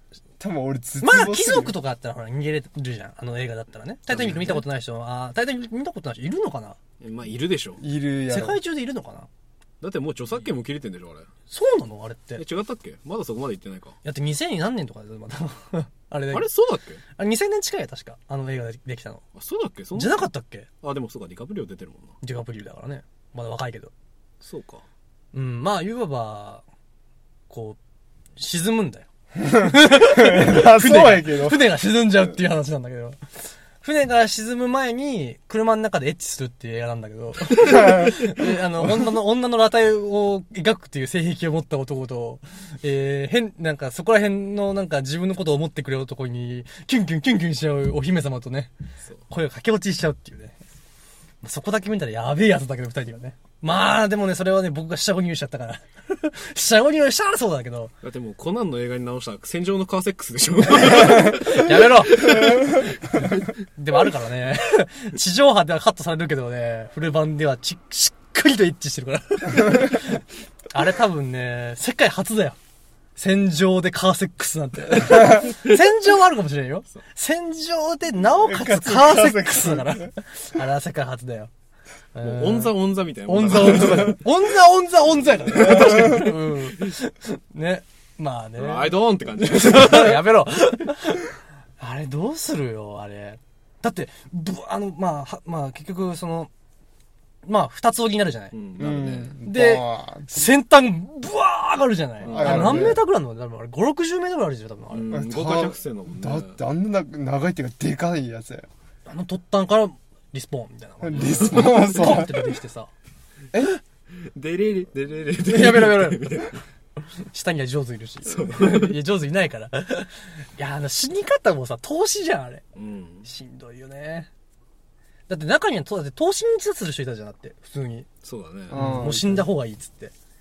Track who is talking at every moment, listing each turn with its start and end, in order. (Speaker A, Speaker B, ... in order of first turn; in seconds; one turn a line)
Speaker A: 0.4-1.7
Speaker B: 1.0-6.8
Speaker C: 4.2-4.5
Speaker C: 7.0-7.8
Speaker A: 7.8-8.6
Speaker B: 8.3-9.3
Speaker C: 9.8-11.3
Speaker B: 11.5-12.4
Speaker C: 12.4-14.0
Speaker B: 14.0-16.5
Speaker C: 16.3-17.0
Speaker B: 17.2-19.2
Speaker C: 19.4-20.2
Speaker B: 19.9-20.7
Speaker C: 20.8-22.1
Speaker B: 22.2-23.9
Speaker C: 24.4-24.8
Speaker B: 25.3-26.6
Speaker B: 27.5-27.8
Speaker B: 28.4-33.2
Speaker A: 29.4-31.6
Speaker B: 33.8-48.7
Speaker A: 37.7-38.3
Speaker B: 49.3-50.6
Speaker B: 51.4-57.9
Speaker C: 58.0-62.9
Speaker B: 60.8-72.6
Speaker B: 73.2-81.5
Speaker A: 78.3-80.1
Speaker B: 82.2-82.7
Speaker C: 82.2-84.2
Speaker B: 83.3-96.5
Speaker C: 88.6-90.2
Speaker B: 97.5-98.5
Speaker C: 98.5-99.4
Speaker A: 98.8-100.4
Speaker B: 99.5-105.2
Speaker C: 102.2-103.0
Speaker A: 102.3-103.0
Speaker C: 104.9-106.6
Speaker A: 105.1-108.7
Speaker B: 109.1-112.9
Speaker A: 111.0-112.5
Speaker C: 111.1-111.8
Speaker C: 114.1-116.6
Speaker B: 115.4-116.5
Speaker B: 117.2-122.6
Speaker C: 118.2-119.0
Speaker C: 122.8-123.3
Speaker B: 123.2-124.3
Speaker B: 125.3-128.1
Speaker C: 128.2-128.9
Speaker A: 128.7-129.5
Speaker B: 128.7-130.1